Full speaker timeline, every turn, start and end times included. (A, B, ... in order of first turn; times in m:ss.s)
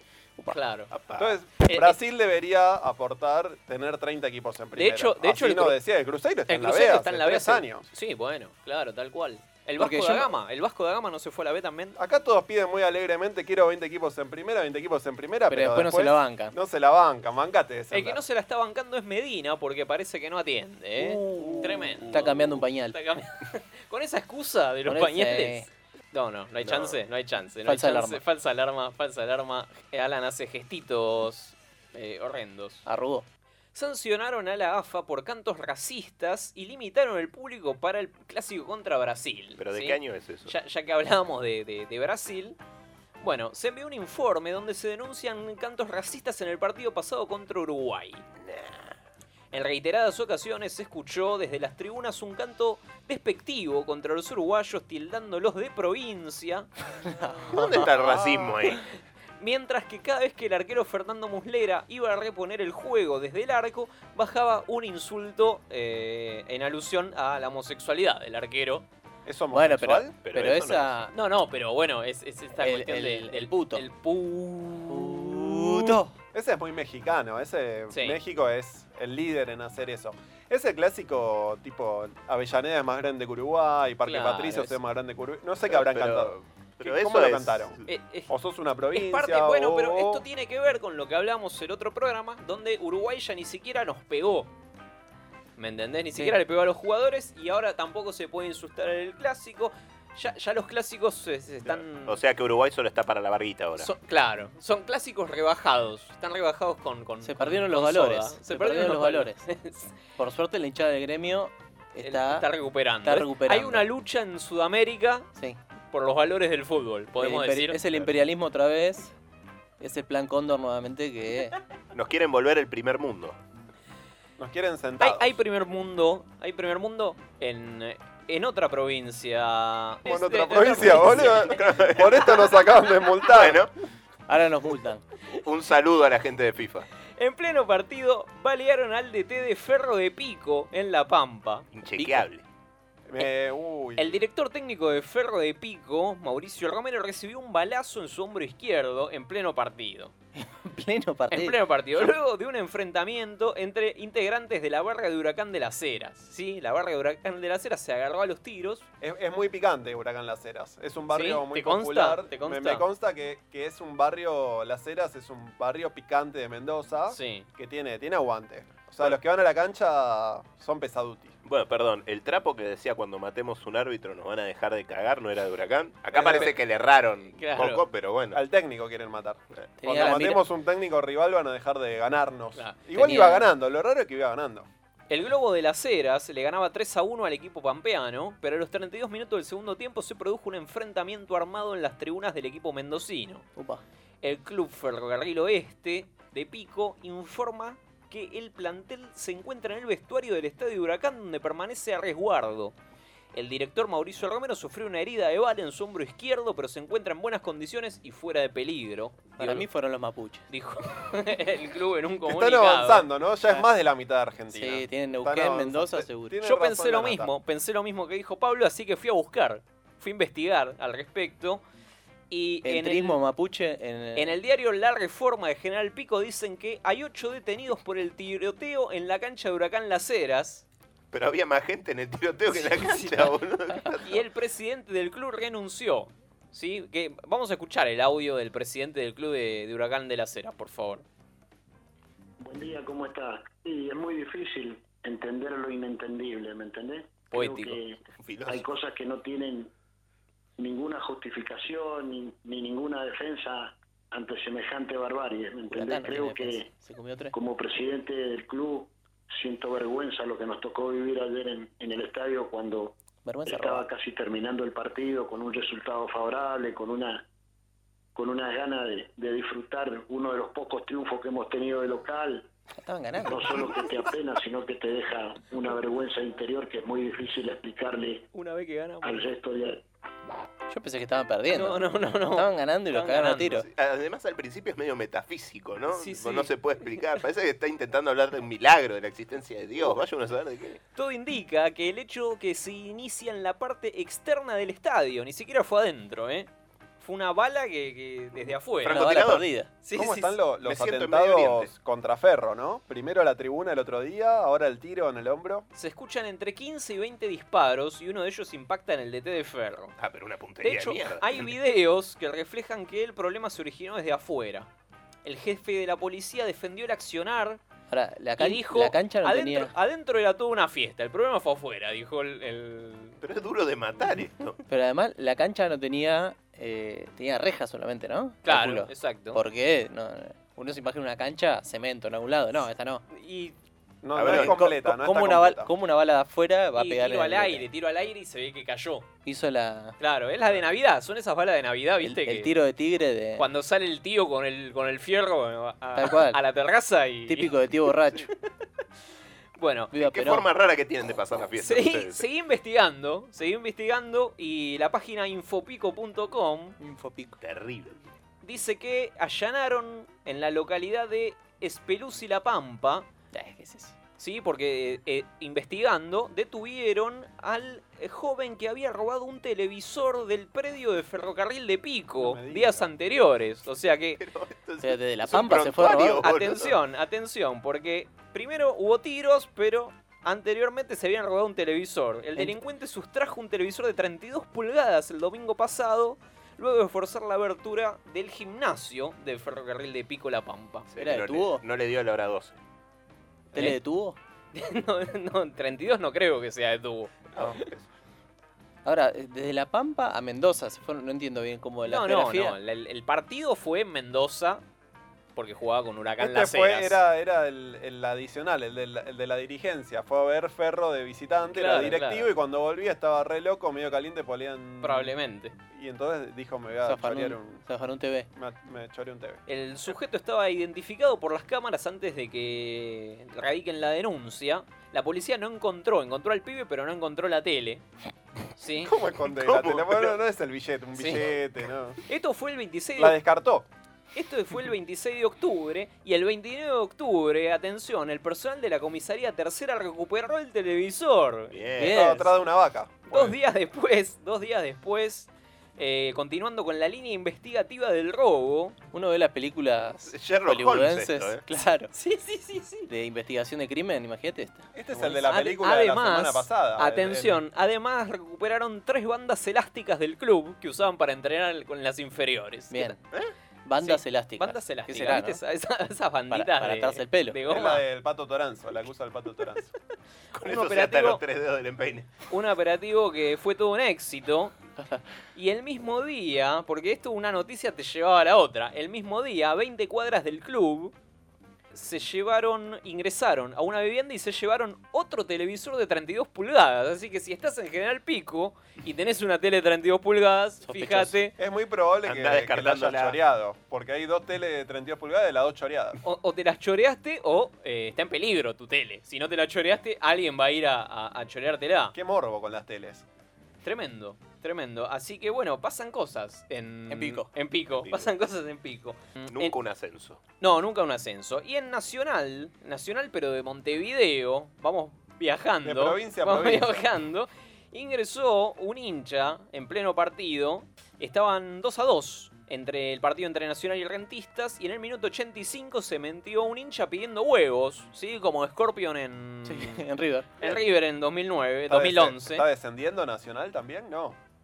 0:00.5-0:01.0 A
0:00.9-0:01.4 B
0:01.2-0:07.8 C
0:01.6-0:02.0 A
0:04.7-0:05.8 A
0:06.5-0:12.0 A
0:09.8-0:10.3 D
0:12.0-0:18.2 C
0:15.5-0:16.5 D
0:17.9-0:32.8 A
0:21.4-0:22.1 C
0:21.4-0:23.0 D
0:24.9-0:25.6 D
0:26.6-0:27.0 B
0:27.6-0:28.2 D
0:32.8-0:33.2 D
0:33.7-0:42.6 A
0:39.6-0:40.5 B
0:43.2-0:48.2 A
0:49.5-0:56.7 A
0:57.0-0:57.6 D
0:57.5-0:58.8 B
0:58.0-0:58.6 C
0:59.4-1:08.8 A
1:09.2-1:10.1 C
1:09.5-1:11.1 D
1:10.2-1:11.0 B
1:11.1-1:16.0 A
1:12.6-1:13.8 D
1:14.9-1:16.1 D
1:16.3-1:30.2 C
1:17.9-1:18.2 A
1:24.0-1:24.7 A
1:25.7-1:27.8 B
1:27.8-1:28.3 A
1:28.9-1:34.5 A
1:35.6-1:42.2 A
1:42.0-1:43.9 B
1:43.8-1:49.9 A
1:47.2-1:49.4 D
1:50.2-1:52.5 D
1:52.0-1:55.3 A
1:53.0-1:53.9 D
1:55.9-1:57.8 A
1:57.2-1:59.1 D
1:59.8-2:01.6 D
2:01.9-2:03.4 B
2:04.4-2:05.4 C
2:05.0-2:11.6 A
2:10.0-2:13.6 C
2:11.0-2:12.5 B
2:13.2-2:13.7 B
2:14.3-2:15.0 D
2:15.4-2:16.8 B
2:17.2-2:22.2 A
2:21.7-2:22.4 B
2:23.1-2:24.2 C
2:24.0-2:30.1 A
2:30.4-2:31.6 D
2:31.3-2:38.9 A
2:39.0-2:51.4 C
2:41.1-2:42.8 A
2:47.1-2:47.5 A
2:51.4-2:58.4 B
2:56.1-2:56.5 C
2:57.3-2:57.8 A
2:58.3-3:04.7 C
2:59.8-3:00.4 D
3:02.9-3:03.4 D
3:05.1-3:13.4 A
3:13.6-3:13.8 D
3:14.2-3:22.7 A
3:23.3-3:29.6 A
3:29.4-3:30.5 D
3:30.5-3:33.1 A
3:32.3-3:37.3 C
3:34.5-3:36.4 D
3:36.4-3:41.6 A
3:42.3-3:43.2 A
3:42.6-3:44.4 D
3:44.2-3:50.6 A
3:51.1-3:54.2 B
3:52.5-3:53.3 A
3:54.0-4:01.0 A
4:02.4-4:09.7 E
4:07.3-4:07.8 A
4:08.2-4:08.7 B
4:10.6-4:16.7 E
4:15.7-4:17.3 D
4:17.3-4:27.2 E
4:23.2-4:23.8 D
4:28.2-4:32.5 E
4:32.8-4:33.6 D
4:33.2-4:38.3 E
4:38.3-4:39.3 A
4:39.0-4:39.8 E
4:40.7-4:41.8 D
4:41.5-4:43.6 A
4:42.4-4:43.6 D
4:43.6-4:50.8 B
4:45.9-4:47.0 A
4:50.9-4:56.5 A
4:57.0-4:59.2 A
4:58.8-4:59.4 B
4:58.8-4:59.7 D
4:59.8-5:00.4 A
4:59.9-5:05.7 C
5:00.6-5:01.7 B
5:05.7-5:09.9 A
5:10.0-5:11.5 B
5:10.6-5:14.7 A
5:15.2-5:17.6 A
5:17.9-5:19.7 D
5:18.4-5:23.2 A
5:23.2-5:24.6 B
5:24.7-5:33.0 D
5:28.4-5:29.4 A
5:33.1-5:33.5 A
5:34.0-5:35.7 C
5:34.1-5:34.6 B
5:34.2-5:37.6 D
5:36.8-5:39.1 A
5:39.2-5:39.9 D
5:40.0-5:42.5 A
5:42.0-5:43.4 D
5:43.4-5:47.6 A
5:46.0-5:46.4 D
5:47.3-5:48.3 D
5:49.6-5:49.9 A
5:49.9-5:50.4 D
5:49.9-5:52.2 B
5:51.6-5:56.8 A
5:56.8-5:57.4 D
5:57.4-5:58.0 B
5:58.4-6:03.0 A
6:03.3-6:03.9 D
6:04.2-6:14.2 A
6:12.2-6:12.9 C
6:14.2-6:16.8 B
6:14.8-6:16.3 D
6:15.8-6:30.9 A
6:30.9-6:32.6 B
6:31.0-6:31.6 D
6:33.5-6:34.2 D
6:34.5-6:37.6 A
6:37.4-6:37.8 B
6:38.8-6:42.6 D
6:41.8-6:44.6 A
6:45.4-6:47.0 A
6:46.2-6:55.1 C
6:51.4-6:52.3 A
6:54.8-6:55.5 A
6:55.7-6:57.6 C
6:56.8-6:58.3 D
6:58.3-6:59.4 C
6:59.5-7:07.8 A
7:08.6-7:08.9 A
7:08.8-7:12.0 C
7:09.2-7:10.2 B
7:11.0-7:11.2 A
7:12.1-7:13.2 A
7:13.0-7:13.7 C
7:14.1-7:21.6 A
7:21.5-7:22.3 B
7:21.8-7:22.3 D
7:21.8-7:23.4 C
7:23.1-7:28.8 A
7:28.9-7:31.9 D
7:30.1-7:31.4 B
7:31.9-7:32.9 A
7:32.9-7:34.6 D
7:34.7-7:37.4 C
7:34.9-7:43.0 A
7:42.7-7:43.0 D
7:43.6-7:45.4 D
7:43.8-7:47.8 A
7:46.3-7:47.4 D
7:47.5-7:49.7 C
7:50.3-7:52.1 B
7:50.4-7:51.2 A
7:52.3-7:54.6 A
7:55.3-8:00.9 A
8:01.7-8:11.3 A
8:10.6-8:11.2 D
8:11.4-8:16.0 C
8:12.0-8:13.2 B
8:16.0-8:21.9 A
8:21.9-8:23.0 C
8:23.6-8:29.5 A
8:26.9-8:27.3 D
8:27.8-8:28.1 B
8:29.3-8:30.2 B
8:30.4-8:49.8 A
8:35.6-8:36.8 C
8:49.4-8:50.3 D
8:50.4-8:52.4 A
8:51.7-8:54.2 C